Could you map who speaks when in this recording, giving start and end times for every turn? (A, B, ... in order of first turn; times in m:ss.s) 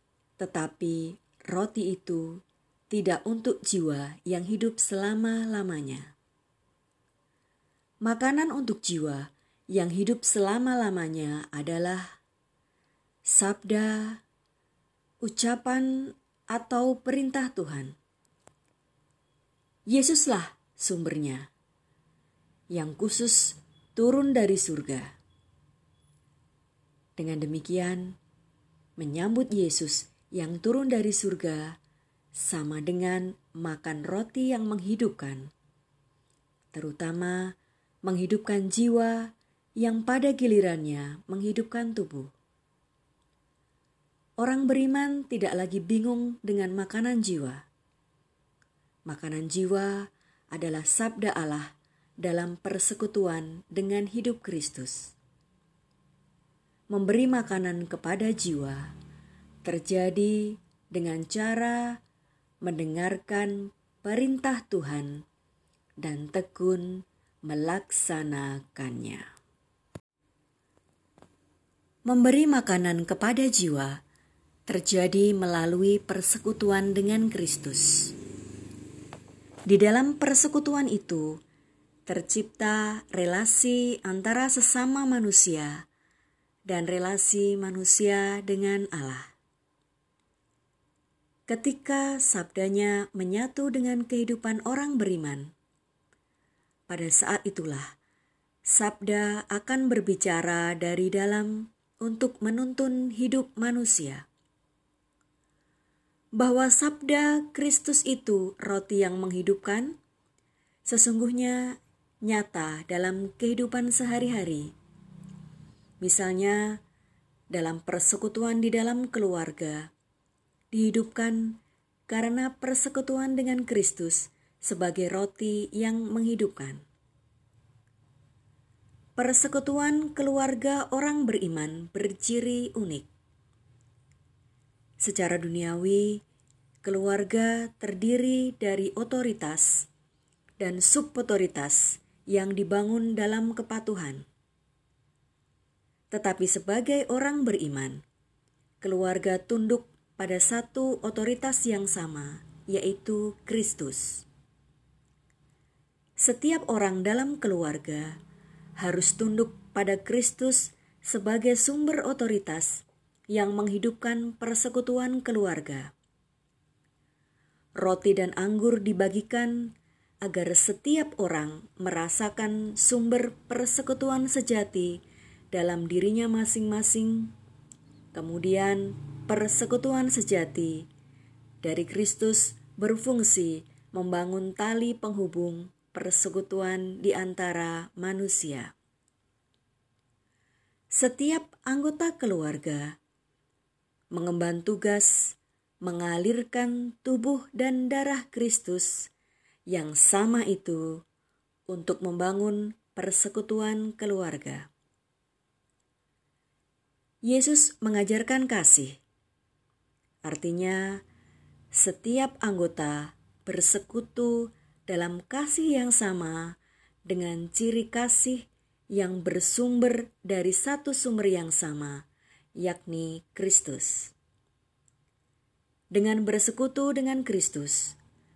0:00.4-0:06.1 A
0:08.0-0:12.1 A
0:13.2-0:14.2 A
0:15.2-0:17.9 A
0:19.9-0:21.5 A
0:22.7-0:25.2 A
0:27.2-0:28.2 A
0:29.0-0:31.8 A
0:32.3-0:35.5 A
0:36.7-0:42.3 A
0:44.4-0:47.6 A
0:49.1-0:55.1 A
0:56.9-0:58.9 A
0:59.6-1:02.0 A
1:02.6-1:05.2 A
1:06.0-1:09.3 A
1:12.0-1:14.0 A
1:14.7-1:18.1 A
1:19.7-1:21.4 A
1:22.0-1:25.9 A
1:26.7-1:29.3 A
1:31.5-1:35.5 A
1:36.9-1:37.9 A
1:38.7-1:44.2 A
1:46.3-1:50.0 A
1:50.8-1:54.7 A
1:56.0-1:56.8 A
1:57.5-1:59.9 A
2:00.7-2:06.8 A
2:09.2-2:13.1 A
2:15.0-2:16.2 A
2:16.8-2:19.9 A
2:20.6-2:24.2 A
2:26.1-2:28.0 A
2:28.8-2:34.2 A
2:36.2-2:38.2 A
2:38.8-2:45.9 A
2:47.8-2:49.7 A
2:50.2-2:57.3 A
2:58.1-3:00.9 A
3:01.6-3:08.7 A
3:10.9-3:13.0 A
3:14.1-3:19.1 A
3:19.7-3:21.0 A
3:21.7-3:24.7 A
3:27.2-3:29.0 A
3:30.2-3:31.0 A
3:31.7-3:42.0 A
3:42.6-3:44.1 A
3:45.9-3:48.0 A